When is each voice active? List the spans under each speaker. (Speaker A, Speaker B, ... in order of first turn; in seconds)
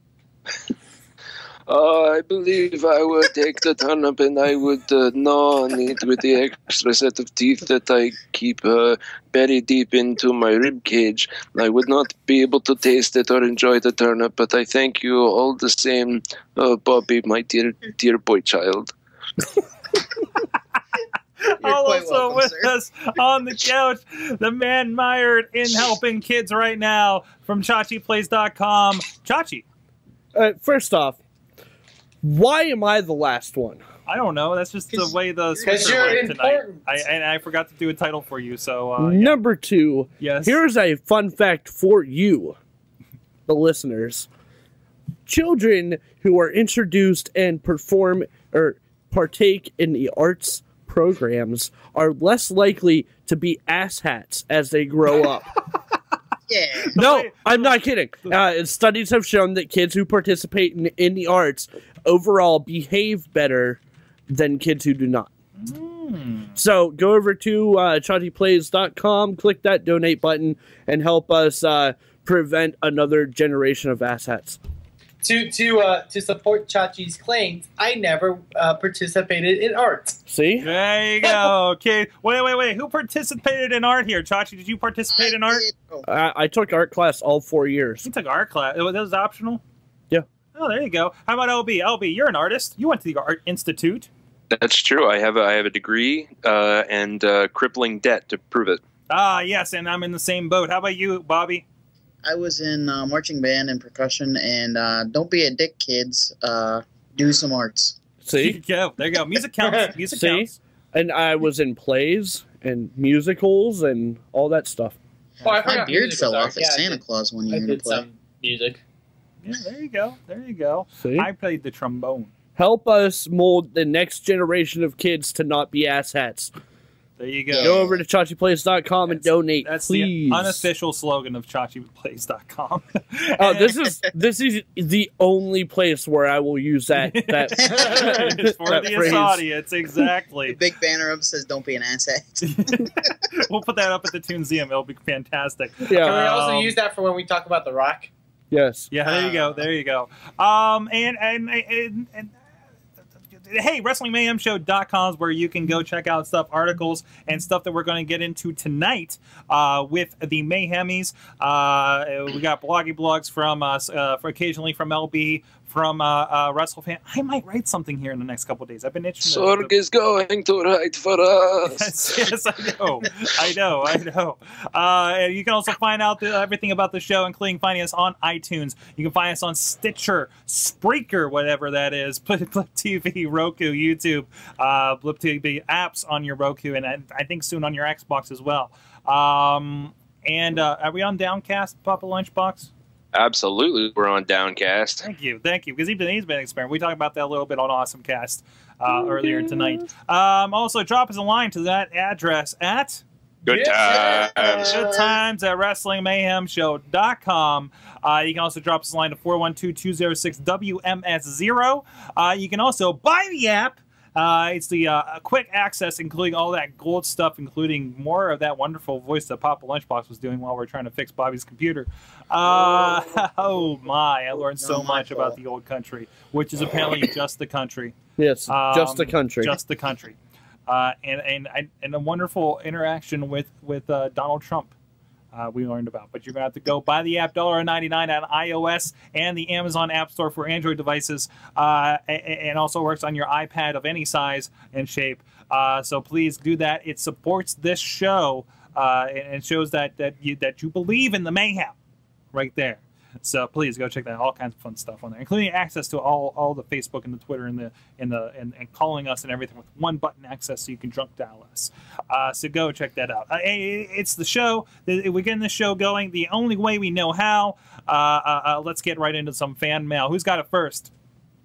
Speaker A: 1.7-18.9, 94.5-98.8, 169.2-171.9, 193.1-195.0, 203.4-204.8
Speaker B: 21.4-29.6, 34.1-39.4, 40.2-40.6, 57.0-58.3, 65.6-66.5, 80.6-85.7, 88.0-89.6, 90.5-94.1, 99.1-101.6, 108.3-110.5, 115.4-115.8, 119.4-122.3, 127.2-127.9, 129.1-133.7, 137.0-140.6, 142.4-146.7, 148.9-152.3, 153.4-169.7, 171.7-192.7, 195.0-203.0, 204.6-227.9, 228.5-234.7, 235.3-251.7, 252.3-270.9
Speaker C: 21.6-22.7, 35.5-36.3, 56.5-56.9, 85.1-86.0, 102.2-108.0, 115.6-118.0, 127.5-128.0, 140.5-143.1
Speaker D: 30.3-31.2, 32.2-33.8, 39.0-42.6, 43.5-44.3, 45.2-55.5, 57.0-65.3, 66.5-74.6, 80.3-80.7, 86.0-88.0, 108.2-108.6, 110.1-115.0, 121.0-121.3, 122.5-126.5, 127.6-130.7, 133.4-139.4, 145.8-146.2, 148.5-148.9, 228.2-229.6
Speaker E: 35.6-36.8, 75.2-80.2, 81.2-81.5, 109.6-109.9, 115.4-118.8, 137.6-139.2, 146.0-148.1, 149.0-149.6, 203.5-205.1, 224.6-225.3